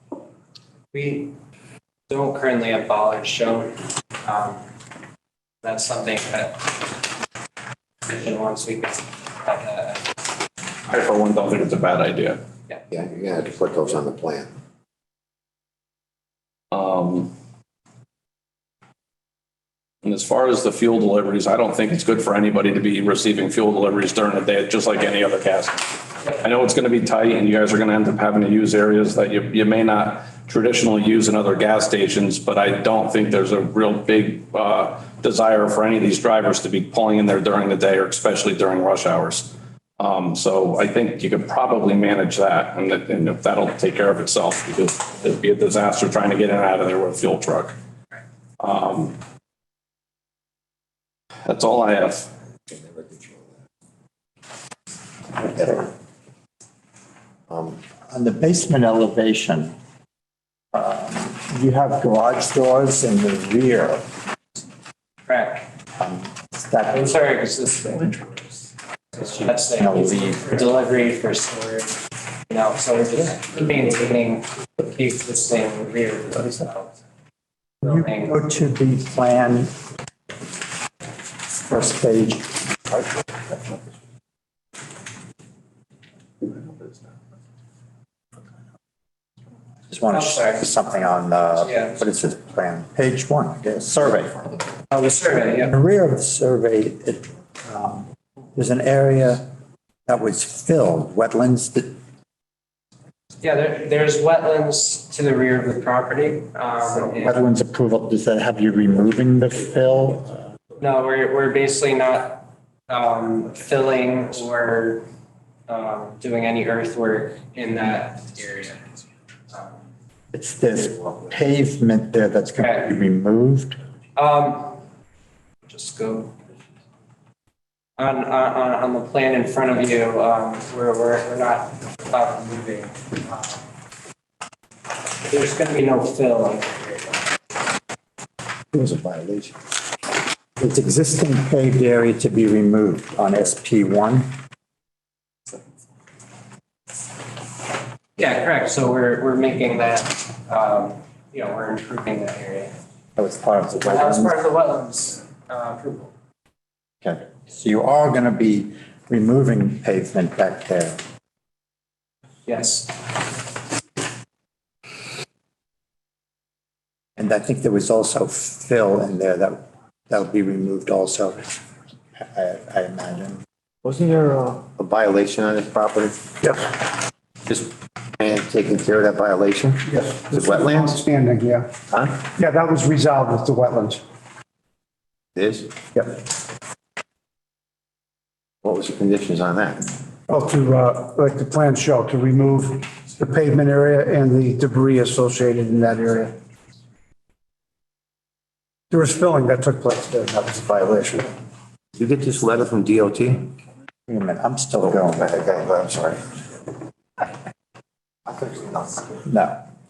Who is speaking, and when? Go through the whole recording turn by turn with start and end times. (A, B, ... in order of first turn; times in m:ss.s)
0:00.9-0:01.3 A
0:02.1-0:04.6 A
0:05.6-0:06.9 A
0:08.0-0:10.1 A
0:10.9-0:12.4 B
0:12.9-0:14.5 C
0:16.7-0:17.3 B
0:20.0-0:47.7 B
0:48.6-0:49.2 B
0:51.4-0:52.3 B
0:52.7-0:53.6 C
0:55.4-0:55.9 D
0:57.5-0:57.8 C
0:58.1-0:59.7 D
1:00.7-1:04.0 D
1:05.3-1:05.7 A
1:06.0-1:07.1 D
1:06.9-1:08.6 A
1:09.1-1:12.0 A
1:09.8-1:10.4 D
1:12.5-1:17.0 A
1:17.8-1:18.3 A
1:17.8-1:19.7 D
1:21.6-1:22.6 D
1:23.5-1:23.8 C
1:26.4-1:26.9 C
1:29.9-1:34.4 D
1:30.1-1:30.6 A
1:31.6-1:31.9 A
1:34.9-1:35.7 A
1:35.7-1:39.4 D
1:40.1-1:41.9 D
1:43.4-1:47.4 A
1:47.2-1:50.4 D
1:50.8-1:55.0 A
1:55.7-1:58.8 A
1:59.5-1:59.8 A
2:00.3-2:03.8 D
2:02.6-2:02.9 A
2:04.2-2:04.8 A
2:05.6-2:06.3 A
2:08.0-2:13.6 A
2:15.3-2:17.2 A
2:18.7-2:19.6 C
2:20.6-2:24.3 D
2:28.2-2:32.7 A
2:33.2-2:34.3 D
2:33.7-2:36.1 A
2:37.0-2:41.0 D
2:42.4-2:43.1 A
2:47.2-2:51.5 D
2:52.2-2:53.4 D
2:53.8-2:56.3 C
2:57.4-3:01.0 C
3:00.0-3:01.7 E
3:01.9-3:02.2 C
3:02.4-3:04.0 E
3:05.4-3:05.7 C
3:08.6-3:09.9 C
3:10.3-3:16.3 E
3:18.9-3:21.2 E
3:22.0-3:23.5 C
3:24.1-3:25.5 D
3:24.8-3:26.2 C
3:28.2-3:29.2 C
3:29.2-3:29.6 D